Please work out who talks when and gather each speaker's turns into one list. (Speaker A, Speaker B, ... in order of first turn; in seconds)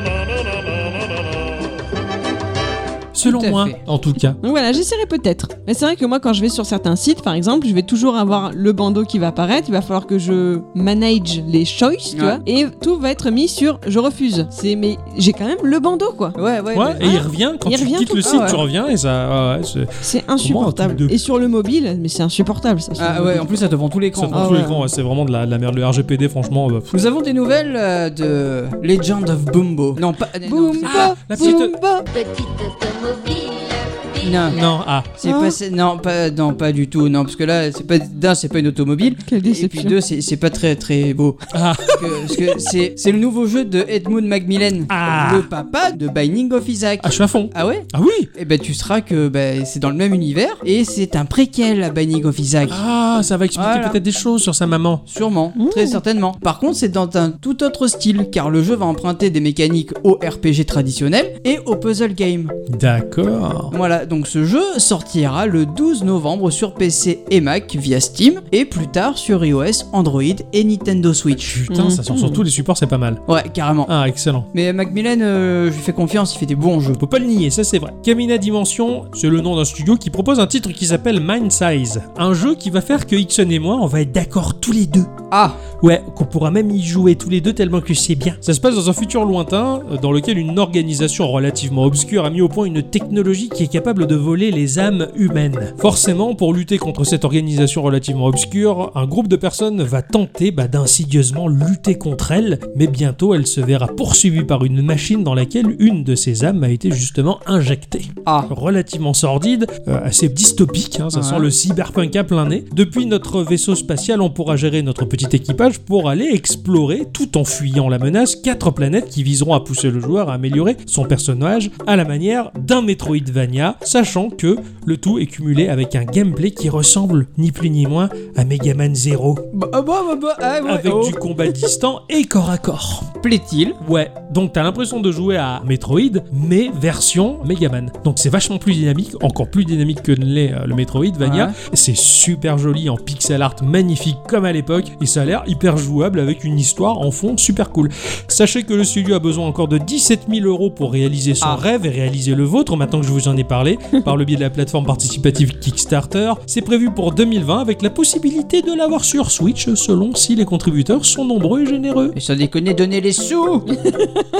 Speaker A: 3.1-4.4, 16.7-19.9, 20.4-21.1, 24.1-26.9, 30.8-31.7, 34.5-35.1, 41.5-42.5, 44.9-45.5, 47.0-48.3, 52.7-55.0, 62.7-63.7, 71.5-73.2, 73.9-74.5, 77.0-85.1, 85.8-129.4, 130.6-133.1, 133.8-162.2
Speaker B: 3.2-3.8, 12.1-12.4, 16.4-17.1, 18.2-18.6, 23.0-24.7, 26.9-31.7, 34.2-34.6, 35.2-52.8, 53.5-54.0, 55.1-62.5, 63.7-71.6, 73.3-73.9, 74.5-77.0, 85.3-85.6, 108.2-108.5, 111.1-111.5, 129.5-131.2, 133.2-133.8, 141.2-141.6, 162.1-163.7
Speaker C: 4.4-16.4, 17.0-18.6, 20.0-23.4, 24.3-24.8, 30.4-32.0, 35.2-35.5, 39.3-40.0, 55.5-56.0, 71.7-72.4, 163.9-164.2
Speaker D: 32.1-34.4